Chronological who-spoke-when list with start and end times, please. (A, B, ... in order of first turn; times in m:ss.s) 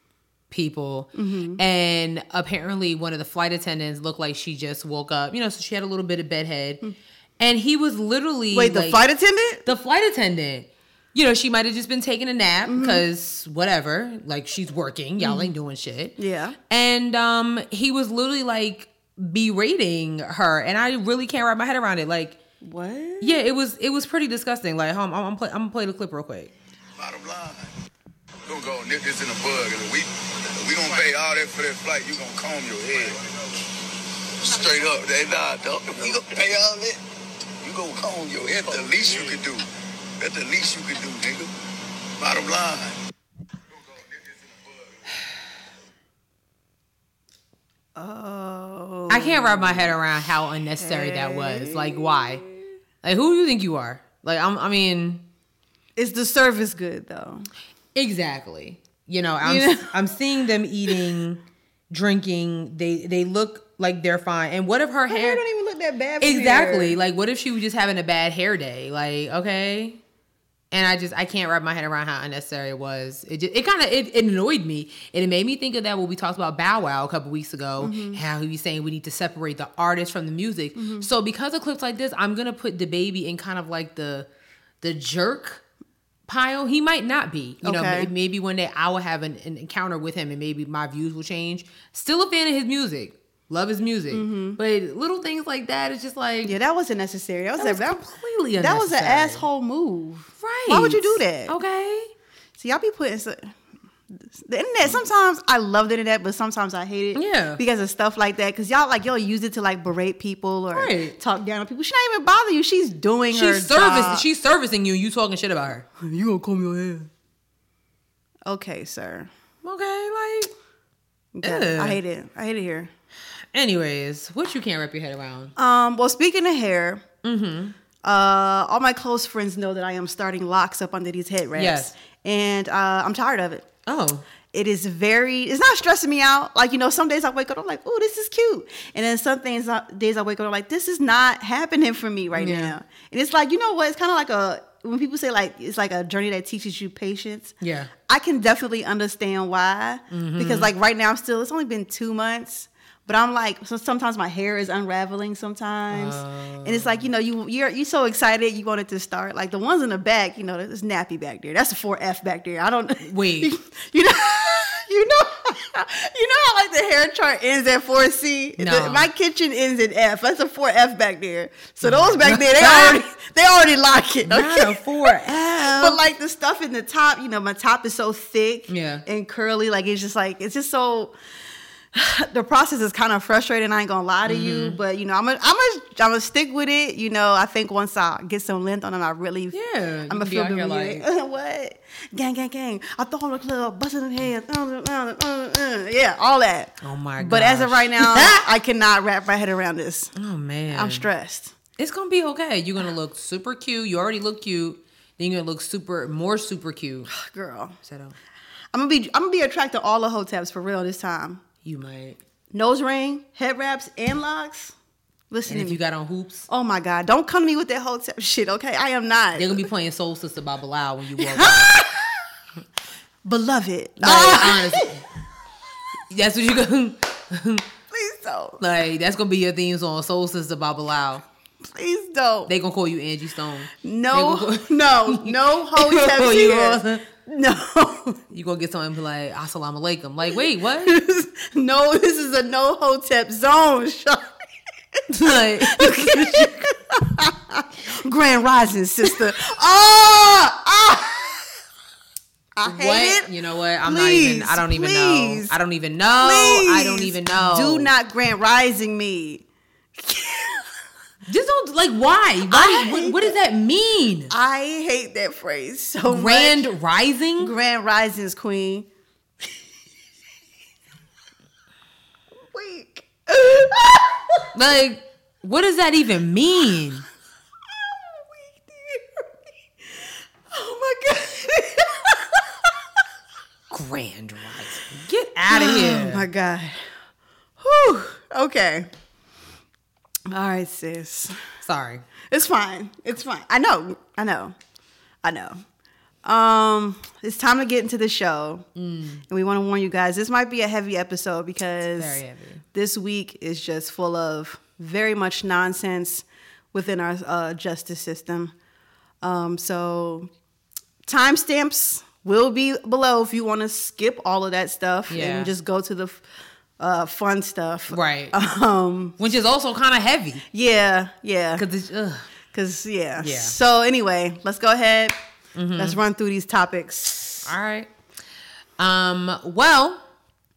0:00.5-0:06.8 A
0:01.2-0:01.6 B
0:07.4-0:09.0 A
0:08.5-0:09.6 B
0:09.6-0:16.2 A
0:12.7-0:13.0 B
0:15.2-0:15.5 B
0:16.2-0:16.6 B
0:16.7-0:22.4 A
0:22.6-0:23.4 B
0:23.2-0:26.5 A
0:27.0-0:27.7 C
0:28.5-0:33.3 C
0:34.4-0:37.0 C
0:37.6-0:39.7 C
0:40.2-0:41.5 C
0:42.2-0:43.0 C
0:43.8-0:45.0 C
0:48.0-0:50.0 B
0:49.1-0:52.4 A
0:50.8-0:52.6 B
0:53.0-0:55.3 A
0:56.0-0:57.5 B
0:57.9-1:05.4 A
0:59.4-0:59.9 B
1:05.1-1:07.0 B
1:06.2-1:10.0 A
1:10.7-1:24.3 A
1:17.8-1:18.2 B
1:20.8-1:21.1 B
1:24.8-1:25.6 A
1:26.3-1:36.6 A
1:27.6-1:28.1 B
1:34.1-1:34.6 B
1:36.4-1:38.0 B
1:37.6-1:39.4 A
1:38.6-1:41.6 B
1:40.4-1:42.1 A
1:42.6-1:43.6 B
1:44.1-1:54.2 B
1:47.2-1:47.6 A
1:50.7-1:51.2 A
1:53.3-1:55.9 A
1:56.0-1:57.1 B
1:58.5-1:59.3 B
1:59.6-2:00.5 A
2:01.4-2:02.9 B
2:01.4-2:02.0 A
2:03.5-2:05.5 A
2:05.6-2:07.0 B
2:07.2-2:07.8 A
2:08.0-2:13.7 B
2:11.5-2:11.9 A
2:13.9-2:14.3 A
2:14.5-2:27.6 B
2:22.4-2:22.7 A
2:27.6-2:27.9 A
2:28.1-3:01.2 B
2:30.1-2:30.7 A
2:35.9-2:37.0 A
2:43.0-2:43.5 A
2:48.6-2:49.1 A
2:51.8-2:53.0 A
2:54.2-2:56.0 A
2:58.7-2:59.0 A
3:02.0-3:09.6 B
3:04.3-3:04.8 A
3:09.5-3:11.0 A
3:10.1-3:20.1 B
3:16.8-3:18.5 A
3:20.2-3:21.1 A
3:20.7-3:21.5 B
3:21.8-3:27.1 A
3:27.1-3:27.8 B
3:27.8-3:28.2 A
3:28.7-3:31.4 B
3:31.6-3:32.2 A
3:32.5-3:34.8 B
3:35.3-3:35.8 B
3:35.5-3:36.5 A
3:36.5-3:39.6 B
3:39.4-3:41.8 A
3:41.2-3:41.9 B
3:43.2-3:44.9 B
3:44.0-3:45.0 A
3:46.1-3:47.7 A
3:47.9-3:48.6 B
3:48.6-3:51.2 A
3:51.6-3:52.5 B
3:52.5-3:57.0 A
3:53.8-3:58.2 B
3:58.3-4:01.0 A
4:00.8-4:04.3 B
4:05.0-4:11.4 B
4:05.1-4:06.6 A
4:12.6-4:13.3 B
4:12.6-4:17.9 A
4:13.8-4:15.6 B
4:16.2-4:19.4 B
4:20.0-4:20.7 B
4:21.3-4:24.3 A
4:22.5-4:23.4 B
4:24.3-4:26.7 B
4:26.1-4:27.5 A
4:27.4-4:28.9 B
4:32.5-4:34.5 B
4:34.5-4:37.0 A
4:38.7-4:39.0 B
4:40.5-4:42.2 B
4:43.7-4:46.3 A
4:45.5-4:46.8 B
4:47.6-4:48.9 B
4:50.3-4:51.4 B
4:51.6-4:52.0 A
4:52.3-4:54.6 B
4:55.2-4:55.6 B
4:56.2-4:58.7 B
4:58.8-4:59.2 A
4:59.3-5:02.2 B
5:02.0-5:02.6 A
5:02.7-5:08.5 B
5:09.2-5:10.3 B
5:11.1-5:16.2 B
5:15.1-5:15.5 A
5:16.8-5:19.2 B
5:17.9-5:18.4 A
5:19.2-5:20.4 A
5:20.5-5:21.6 B
5:21.6-5:22.3 A
5:22.5-5:25.2 B
5:23.2-5:23.5 A
5:25.6-5:26.0 A
5:25.8-5:27.5 B
5:27.5-5:27.9 A
5:28.8-5:30.0 A